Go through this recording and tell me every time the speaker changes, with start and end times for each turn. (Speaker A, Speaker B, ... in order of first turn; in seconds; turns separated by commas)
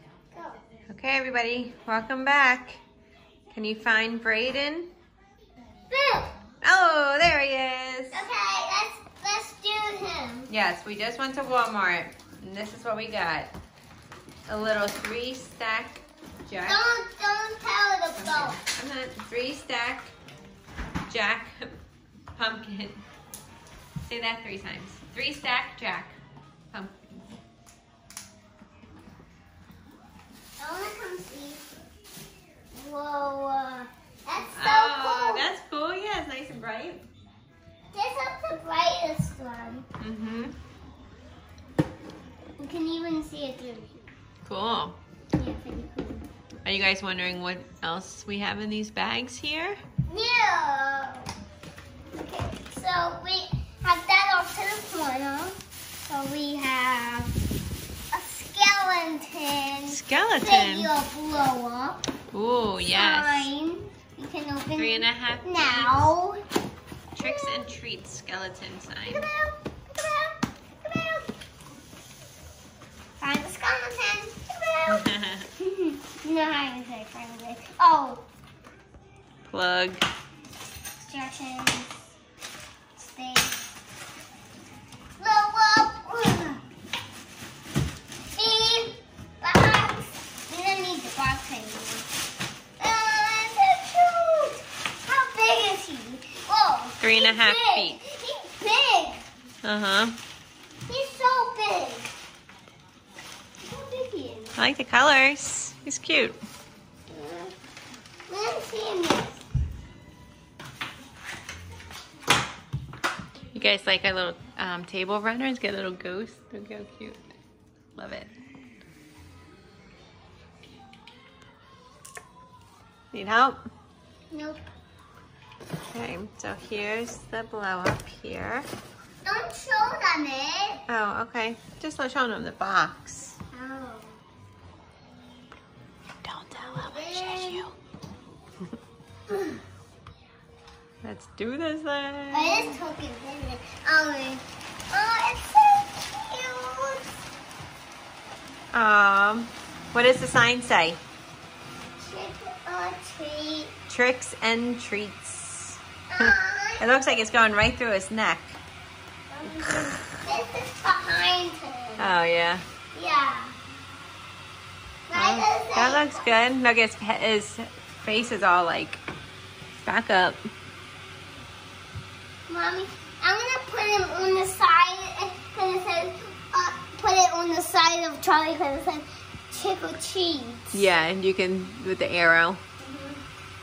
Speaker A: 0.3-0.6, Speaker B: 0.9-2.8, Speaker B: 3.5-4.9, Speaker A: 5.9-6.3, Speaker B: 6.6-8.2, Speaker A: 8.1-10.5, Speaker B: 10.5-13.5, Speaker B: 14.5-16.8, Speaker A: 16.6-18.6, Speaker B: 18.1-20.1, Speaker B: 21.1-21.7, Speaker B: 22.4-23.0, Speaker B: 24.0-26.2, Speaker A: 30.6-31.6, Speaker A: 32.7-35.5, Speaker B: 34.5-37.0, Speaker A: 37.9-39.8, Speaker B: 40.0-40.5, Speaker A: 42.6-43.9, Speaker B: 44.4-45.0, Speaker A: 45.4-46.3, Speaker B: 46.6-49.8, Speaker A: 50.1-51.3, Speaker A: 52.1-55.6, Speaker A: 56.1-57.3, Speaker A: 58.1-62.0, Speaker B: 59.9-60.9, Speaker B: 62.3-63.5, Speaker A: 62.8-66.4, Speaker B: 64.8-66.1, Speaker A: 67.2-67.7, Speaker B: 67.2-69.3, Speaker A: 69.0-71.3, Speaker A: 73.2-78.2, Speaker B: 74.9-75.5, Speaker B: 79.5-80.0, Speaker A: 81.0-82.1, Speaker A: 83.0-83.6, Speaker A: 85.2-86.6, Speaker A: 88.3-92.1, Speaker A: 92.8-99.2, Speaker B: 97.0-98.0, Speaker B: 99.6-100.2, Speaker A: 100.9-102.1, Speaker A: 103.6-104.5, Speaker B: 104.6-106.4, Speaker A: 107.1-107.5, Speaker A: 108.3-109.4, Speaker B: 113.5-117.2, Speaker B: 118.0-118.3, Speaker B: 123.1-123.6, Speaker A: 124.3-124.6, Speaker B: 125.9-128.7, Speaker A: 129.2-130.8, Speaker B: 130.9-133.3, Speaker A: 133.5-134.2, Speaker B: 136.2-137.7, Speaker A: 136.5-137.7, Speaker A: 139.3-139.6, Speaker B: 141.0-142.8, Speaker A: 142.3-147.0, Speaker B: 148.7-151.0, Speaker A: 152.0-153.7, Speaker B: 153.9-158.6, Speaker A: 156.1-156.8, Speaker A: 159.3-162.1, Speaker B: 162.0-162.6, Speaker A: 162.9-163.5, Speaker A: 165.1-166.3, Speaker B: 165.1-169.0, Speaker B: 169.8-170.4, Speaker A: 172.5-180.9, Speaker B: 180.7-182.6, Speaker A: 182.8-183.2